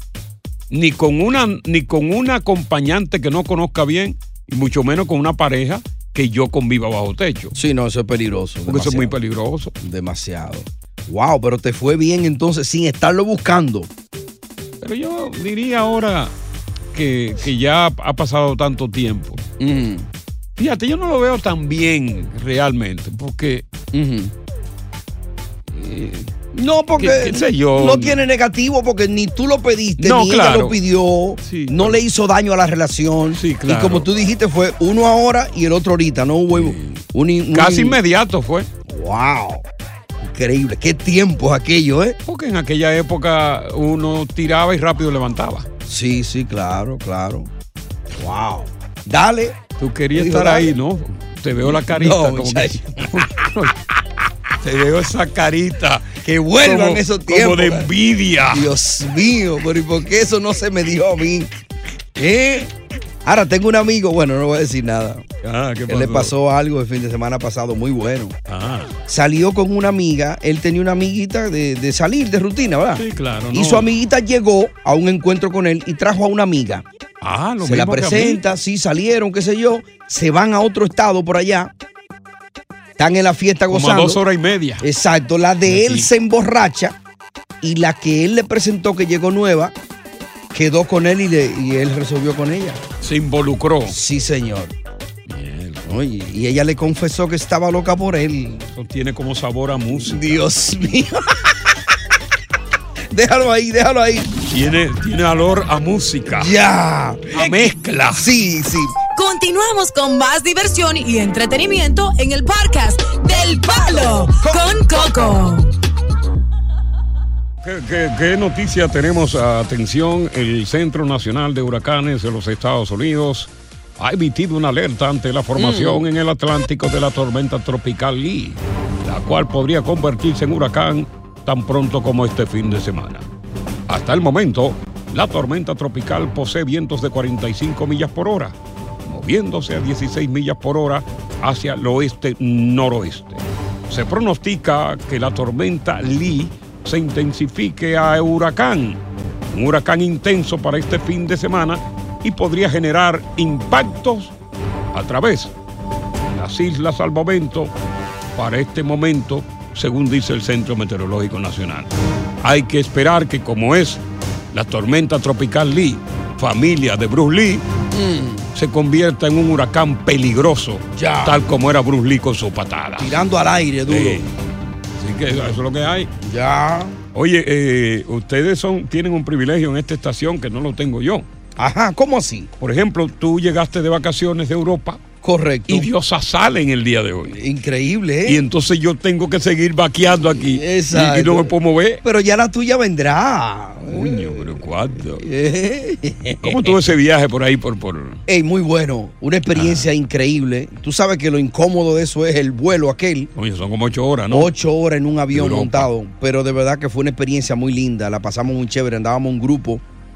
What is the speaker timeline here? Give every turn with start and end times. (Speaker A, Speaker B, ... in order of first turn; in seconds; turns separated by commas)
Speaker A: 0.7-7.5, Speaker B: 7.5-9.2, Speaker A: 8.7-9.7, Speaker B: 9.8-13.9, Speaker A: 14.8-16.3, Speaker A: 16.9-19.4, Speaker B: 19.6-20.1, Speaker A: 20.6-23.7, Speaker B: 23.9-24.3, Speaker A: 25.7-26.3, Speaker B: 26.5-38.0, Speaker A: 27.0-28.2, Speaker A: 30.0-30.8, Speaker A: 31.4-32.0, Speaker A: 33.3-34.1, Speaker A: 36.5-38.7, Speaker B: 38.9-39.6, Speaker B: 40.2-42.2, Speaker A: 42.2-45.7, Speaker B: 45.9-47.5, Speaker B: 48.1-49.6, Speaker A: 49.8-53.9, Speaker B: 50.1-50.7, Speaker B: 51.6-53.5, Speaker A: 54.6-58.7, Speaker B: 56.2-57.9, Speaker B: 58.5-61.5, Speaker B: 62.1-65.2, Speaker A: 65.4-66.3, Speaker B: 65.9-68.3, Speaker A: 68.5-69.0, Speaker B: 69.1-76.8, Speaker A: 72.9-73.9, Speaker A: 77.2-78.4, Speaker B: 77.6-81.7, Speaker B: 83.0-84.2, Speaker A: 83.7-84.8, Speaker B: 84.8-87.0, Speaker A: 85.7-86.1, Speaker B: 87.6-89.7, Speaker B: 90.5-92.8, Speaker A: 93.0-94.0, Speaker B: 93.9-94.7, Speaker A: 95.3-95.8, Speaker B: 95.8-98.7, Speaker A: 98.7-100.4, Speaker B: 99.9-101.7, Speaker B: 103.1-104.3, Speaker A: 104.5-106.5, Speaker B: 106.3-108.9, Speaker A: 107.3-108.3, Speaker C: 109.1-115.7, Speaker B: 113.9-115.4, Speaker A: 117.6-133.2, Speaker B: 125.5-126.1, Speaker A: 133.9-154.3, Speaker A: 154.9-155.5, Speaker A: 156.3-157.7, Speaker A: 158.3-161.9, Speaker A: 162.4-167.6, Speaker B: 167.9-168.5, Speaker A: 168.5-173.2, Speaker B: 170.9-171.4, Speaker B: 173.0-174.2, Speaker A: 173.9-174.3, Speaker A: 175.0-176.1, Speaker B: 176.2-177.0, Speaker A: 177.1-181.3, Speaker B: 181.6-182.5, Speaker A: 182.6-185.0, Speaker B: 185.2-185.9, Speaker A: 185.7-187.4, Speaker B: 187.3-188.4, Speaker A: 188.2-192.0, Speaker B: 190.2-196.8, Speaker A: 193.9-195.2, Speaker A: 196.4-198.2, Speaker B: 198.3-203.3, Speaker A: 199.5-199.9, Speaker A: 203.3-204.5, Speaker B: 204.3-209.8, Speaker A: 205.3-205.9